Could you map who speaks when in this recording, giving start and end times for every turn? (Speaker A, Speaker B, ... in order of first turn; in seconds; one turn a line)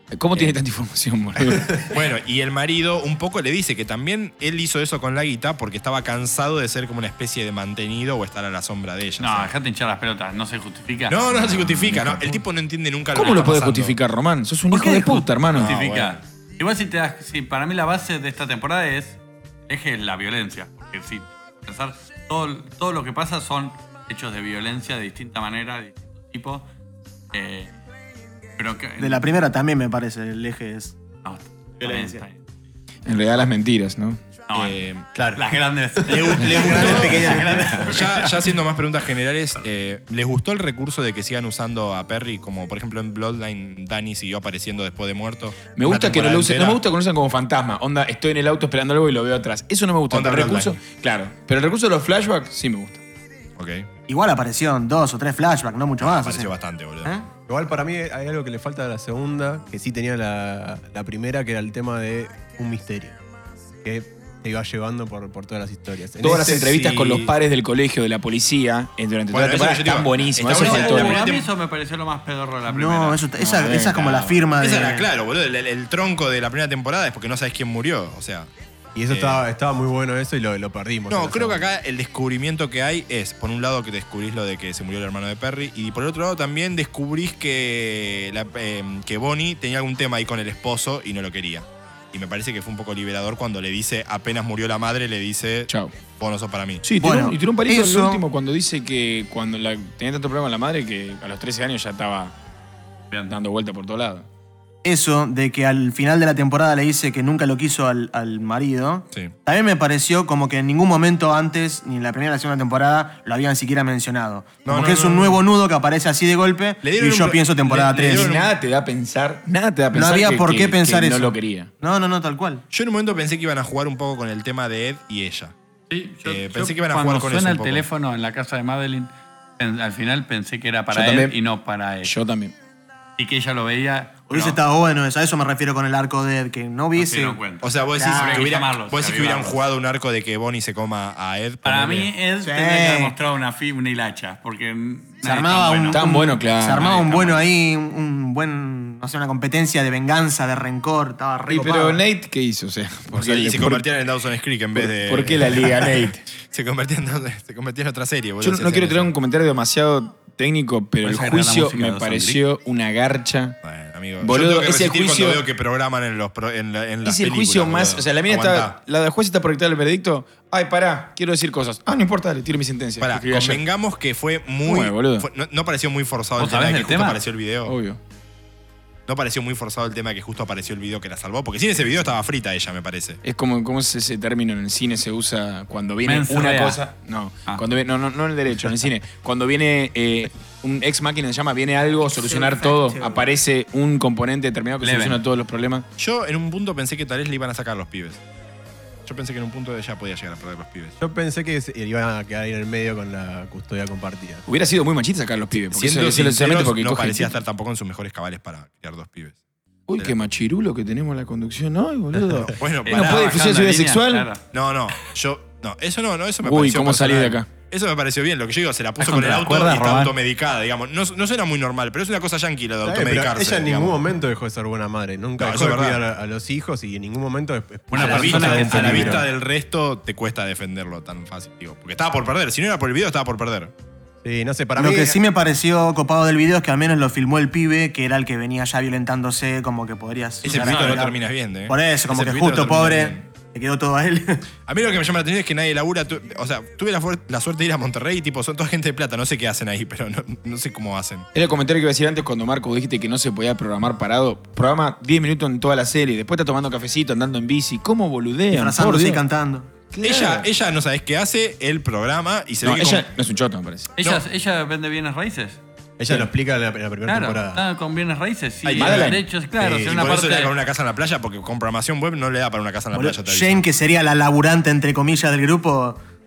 Speaker A: 0.1-1.9
Speaker B: 1.5-1.9
Speaker C: 1.9-9.5
Speaker D: 9.2-11.8
Speaker C: 11.1-14.0
Speaker B: 12.1-12.4
Speaker A: 13.1-15.7
Speaker D: 14.7-26.7
Speaker C: 15.5-16.2
Speaker D: 27.3-27.7
Speaker D: 28.6-29.3
Speaker E: 29.0-31.0
Speaker D: 31.2-32.4
Speaker E: 31.8-32.2
Speaker A: 33.0-34.2
Speaker D: 34.5-38.4
Speaker C: 34.5-35.1
Speaker B: 36.1-37.6
Speaker C: 36.1-46.8
Speaker E: 36.3-37.9
Speaker A: 45.7-53.0
Speaker C: 50.1-50.8
Speaker C: 53.6-53.9
Speaker E: 54.1-57.3
Speaker C: 56.0-57.1
Speaker B: 57.5-63.2
Speaker B: 63.8-67.1
Speaker A: 66.2-71.3
Speaker C: 66.5-67.3
Speaker C: 69.3-71.5
Speaker D: 70.5-73.3
Speaker E: 72.7-75.1
Speaker A: 73.4-74.4
Speaker C: 74.6-78.5
Speaker B: 79.0-81.7
Speaker C: 79.1-79.4
Speaker C: 81.1-96.8
Speaker A: 95.7-96.0
Speaker A: 96.8-102.3
Speaker E: 97.0-98.2
Speaker A: 103.3-104.3
Speaker E: 104.8-118.3
Speaker C: 114.7-115.4
Speaker C: 116.8-118.5
Speaker A: 117.7-121.7
Speaker E: 119.9-122.6
Speaker C: 122.7-125.5
Speaker D: 125.9-132.1
Speaker C: 126.2-127.9
Speaker A: 130.9-131.4
Speaker A: 132.0-132.5
Speaker D: 133.2-134.6
Speaker E: 134.3-137.4
Speaker D: 137.0-139.6
Speaker C: 137.6-142.1
Speaker E: 138.0-138.5
Speaker D: 141.6-146.0
Speaker E: 142.4-143.2
Speaker E: 145.2-152.0
Speaker A: 145.9-147.0
Speaker C: 146.8-147.1
Speaker A: 151.5-153.9
Speaker C: 153.1-159.1
Speaker A: 154.8-156.2
Speaker A: 158.4-163.6
Speaker D: 161.0-162.4
Speaker C: 163.6-168.8
Speaker A: 164.2-165.4
Speaker A: 167.0-173.6
Speaker C: 173.0-177.8
Speaker A: 174.6-175.3
Speaker D: 176.4-177.2
Speaker A: 177.7-178.0
Speaker C: 179.1-183.2
Speaker A: 183.2-195.9
Speaker D: 186.1-186.8
Speaker E: 192.1-193.3
Speaker D: 194.8-195.2
Speaker C: 196.0-198.2
Speaker C: 199.1-201.0
Speaker B: 201.0-204.4
Speaker A: 204.5-207.3
Speaker C: 205.7-209.4
Speaker A: 209.9-214.3
Speaker C: 212.5-213.5
Speaker D: 212.8-214.4
Speaker C: 214.5-224.0
Speaker A: 216.4-217.5
Speaker D: 219.0-220.1
Speaker B: 222.8-229.3
Speaker C: 225.4-226.0
Speaker D: 227.9-229.2
Speaker C: 227.9-233.7
Speaker B: 234.2-235.2
Speaker E: 234.8-244.4
Speaker C: 240.4-243.2
Speaker D: 240.5-241.0
Speaker C: 244.7-251.3
Speaker A: 251.3-259.2
Speaker E: 258.5-259.7
Speaker A: 259.9-260.5
Speaker C: 260.0-263.1
Speaker A: 262.6-263.9
Speaker D: 264.0-265.6
Speaker B: 266.0-267.6
Speaker D: 267.1-270.5
Speaker C: 268.6-269.2
Speaker A: 268.7-269.2
Speaker B: 269.6-270.1
Speaker C: 269.9-273.6
Speaker E: 272.9-276.0